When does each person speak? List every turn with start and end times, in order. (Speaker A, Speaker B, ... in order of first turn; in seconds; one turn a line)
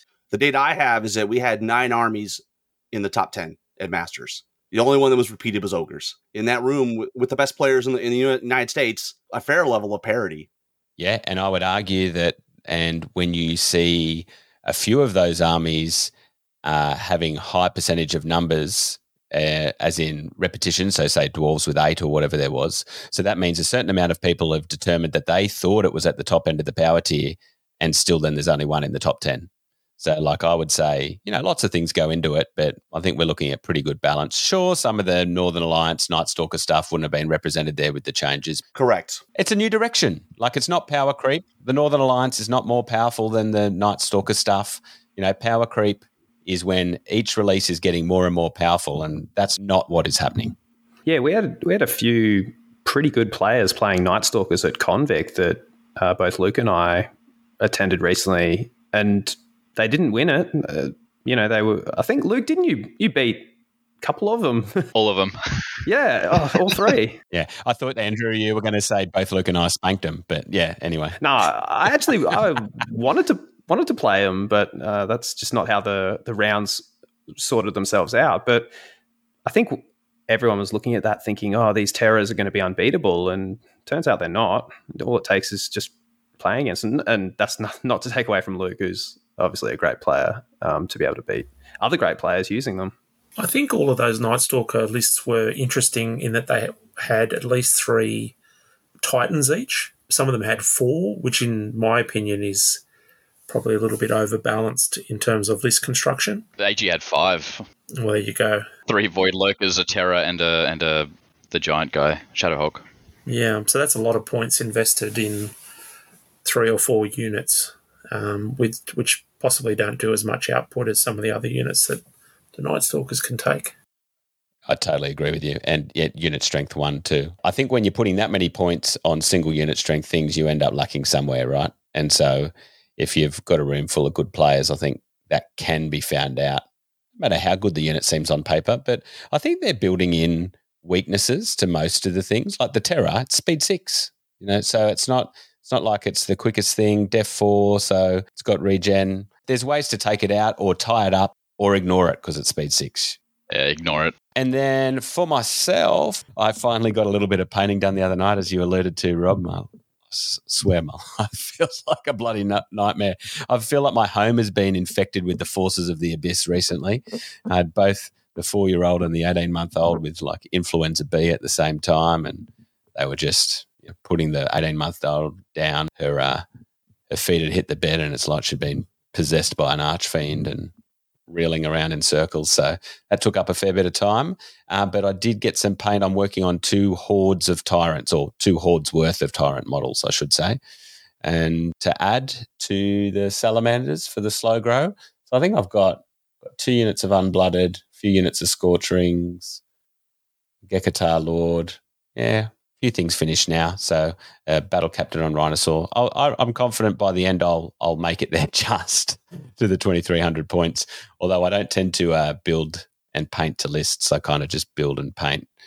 Speaker A: 0.3-10.5
Speaker B: 11.0-16.1
Speaker B: 16.6-38.6
Speaker A: 38.7-39.2
Speaker B: 39.4-50.5
Speaker C: 51.0-63.5
Speaker C: 64.0-64.9
Speaker D: 64.9-65.7
Speaker C: 65.8-67.2
Speaker B: 67.3-71.2
Speaker C: 71.2-78.7
Speaker C: 79.4-92.9
Speaker E: 93.4-98.3
Speaker E: 99.0-102.8
Speaker E: 103.5-106.4
Speaker D: 106.6-107.6
Speaker E: 108.0-108.7
Speaker D: 108.9-112.8
Speaker E: 113.3-115.5
Speaker E: 116.4-122.0
Speaker E: 122.5-123.7
Speaker B: 124.7-136.6
Speaker B: 137.2-153.2
Speaker D: 153.5-154.1
Speaker B: 154.3-176.4
Speaker B: 177.1-180.7
Speaker B: 181.3-190.6
Speaker B: 191.2-199.6
Speaker B: 200.7-215.5